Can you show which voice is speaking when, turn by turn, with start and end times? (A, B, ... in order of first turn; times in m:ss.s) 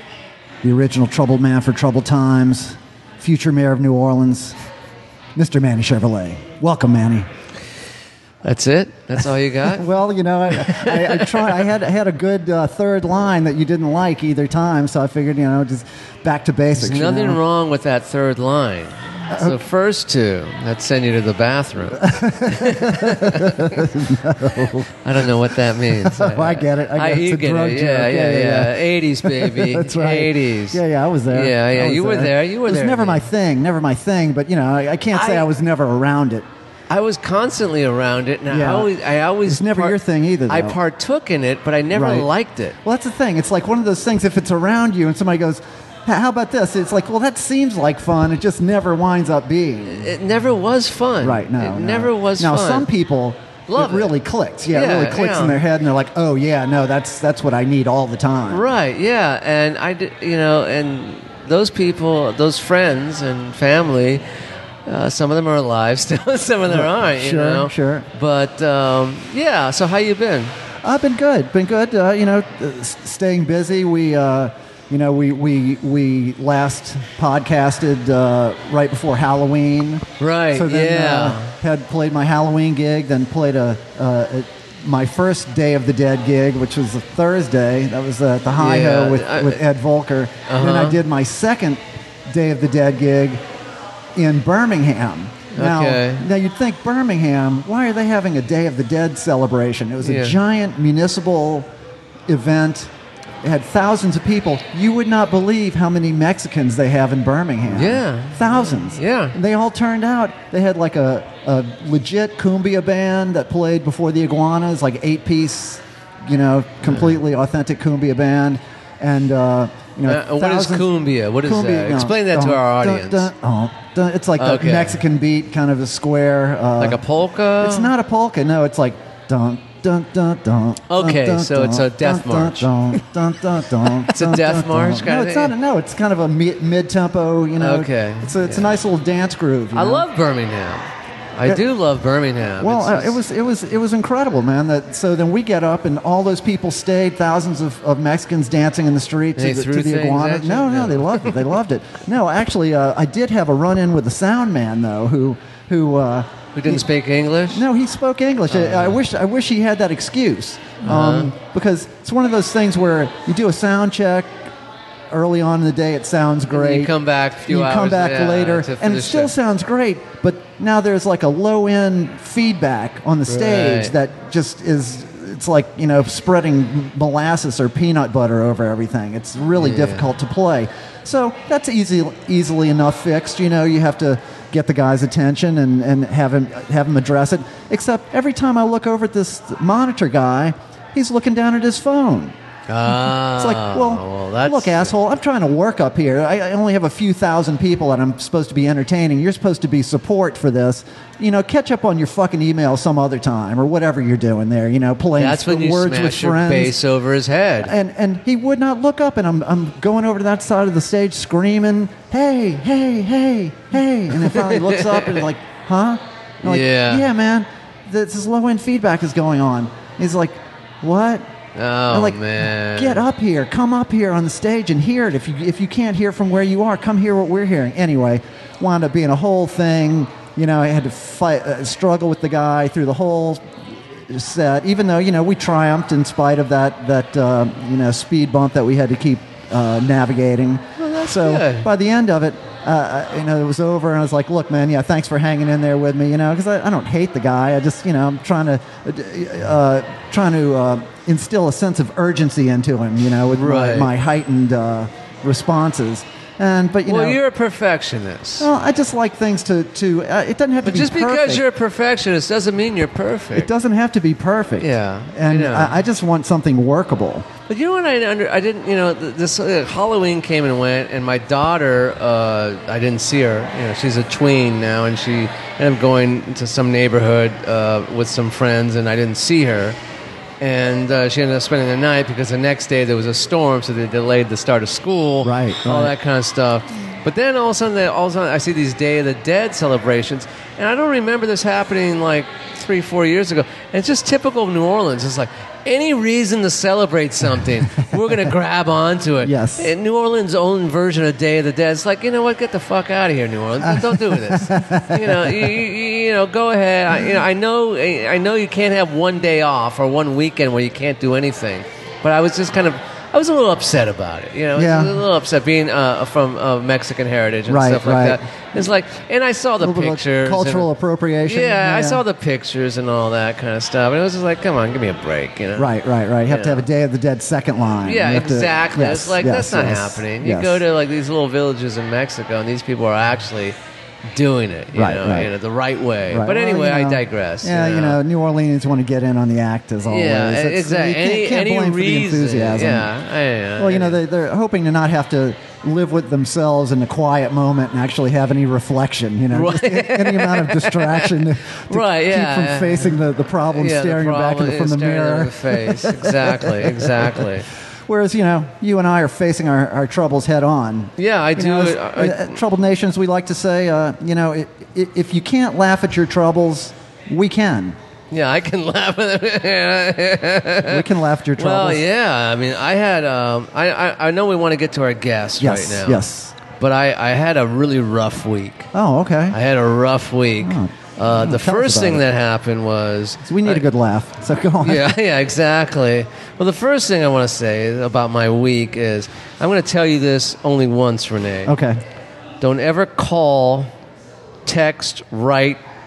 0:00.6-0:04.6 A
0:05.4-0:07.3 A
0:08.4-0:09.8 B
0:09.7-0:17.4 A
0:10.6-0:11.3 B
0:16.8-0:23.8 B
0:19.3-0:19.6 A
0:22.0-0:24.9 A
0:25.0-0:33.2 B
0:25.9-0:36.5 A
0:35.1-0:35.5 B
0:36.9-0:40.0 B
0:38.5-0:38.9 A
0:39.4-0:40.8 A
0:40.5-0:42.8 B
0:41.9-0:42.3 A
0:42.8-0:50.1 A
0:49.9-0:52.9 B
0:51.2-0:58.6 A
0:53.7-0:54.1 B
0:54.7-0:55.6 B
0:58.5-1:04.2 B
1:04.8-1:10.6 B
1:06.7-1:08.1 A
1:10.8-1:33.4 A
1:20.2-1:21.5 B
1:28.6-1:29.6 B
1:30.5-1:31.0 B
1:34.1-1:41.7 A
1:35.5-1:36.2 B
1:40.0-1:40.4 B
1:42.3-1:42.9 A
1:43.4-2:07.0 A
1:47.7-1:49.3 B
2:00.0-2:03.3 B
2:04.4-2:05.0 B
2:06.8-2:07.9 B
2:07.6-2:20.1 A
2:10.9-2:12.7 B
2:14.0-2:15.5 B
2:17.6-2:18.8 B
2:19.7-2:23.2 B
2:22.6-2:36.8 A
2:29.4-2:31.5 B
2:36.5-2:37.6 B
2:37.5-2:44.4 A
2:38.5-2:39.0 B
2:40.8-2:41.3 B
2:45.1-2:46.9 A
2:46.5-2:49.3 B
2:47.5-3:12.3 A
2:53.3-2:53.9 B
2:59.6-3:00.1 B
3:12.7-3:14.9 B
3:13.3-3:26.8 A
3:25.2-3:27.7 B
3:27.6-3:41.2 A
3:34.2-3:35.2 B
3:36.4-3:37.0 B
3:41.6-3:43.0 B
3:41.9-4:17.2 A
4:00.8-4:01.7 B
4:13.3-4:13.9 B
4:16.8-4:18.5 B
4:18.4-4:21.4 A
4:20.6-4:23.5 B
4:23.3-4:27.3 A
4:24.6-4:25.7 B
4:27.5-4:39.8 B
4:40.4-5:20.7 B
4:45.2-4:45.9 A
4:59.2-4:59.7 A
5:03.6-5:05.5 A
5:14.6-5:15.0 A
5:17.5-5:18.2 A
5:19.6-5:22.0 A
5:21.2-5:26.6 B
5:25.6-5:30.6 A
5:27.8-5:33.6 B
5:34.1-5:38.0 B
5:34.7-5:35.3 A
5:36.1-5:42.9 A
5:39.8-5:44.0 B
5:43.6-5:57.3 A
5:49.3-5:57.5 B
5:57.9-6:07.8 A
6:01.0-6:02.4 B
6:08.1-6:18.7 B
6:10.6-6:11.8 A
6:15.4-6:16.4 A
6:18.7-6:19.4 A
6:19.3-6:23.6 B
6:20.4-6:22.0 A
6:23.3-6:24.9 A
6:24.6-6:31.5 B
6:31.4-6:31.8 A
6:32.4-6:33.7 B
6:34.4-6:35.6 B